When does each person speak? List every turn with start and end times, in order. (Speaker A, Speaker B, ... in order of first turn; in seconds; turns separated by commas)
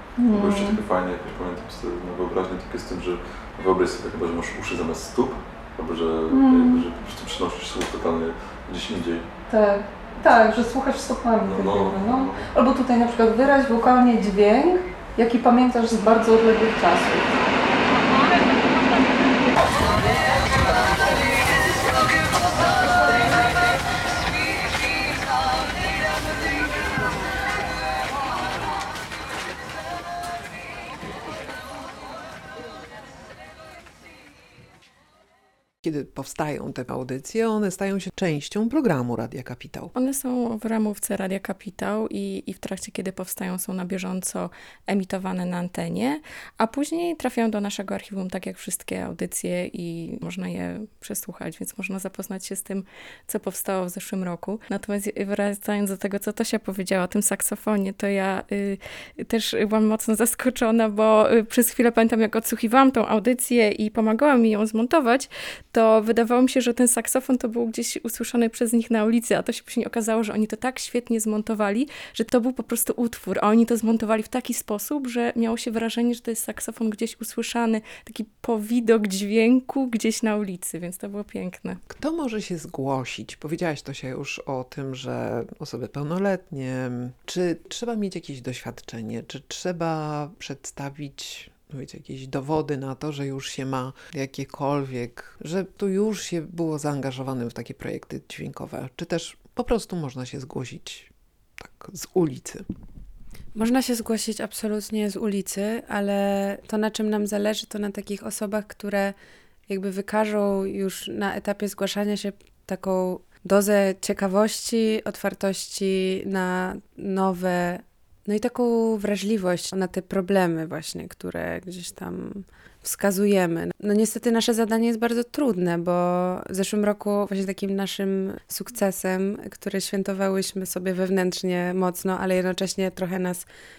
Speaker A: 0.2-0.7, Speaker B: 0.3-9.2, Speaker A: 6.3-6.8, Speaker A: 9.5-17.3, Speaker B: 11.4-12.4, Speaker C: 35.8-39.9, Speaker D: 39.9-81.8, Speaker C: 81.9-102.6, Speaker E: 103.5-109.1, Speaker E: 109.7-133.5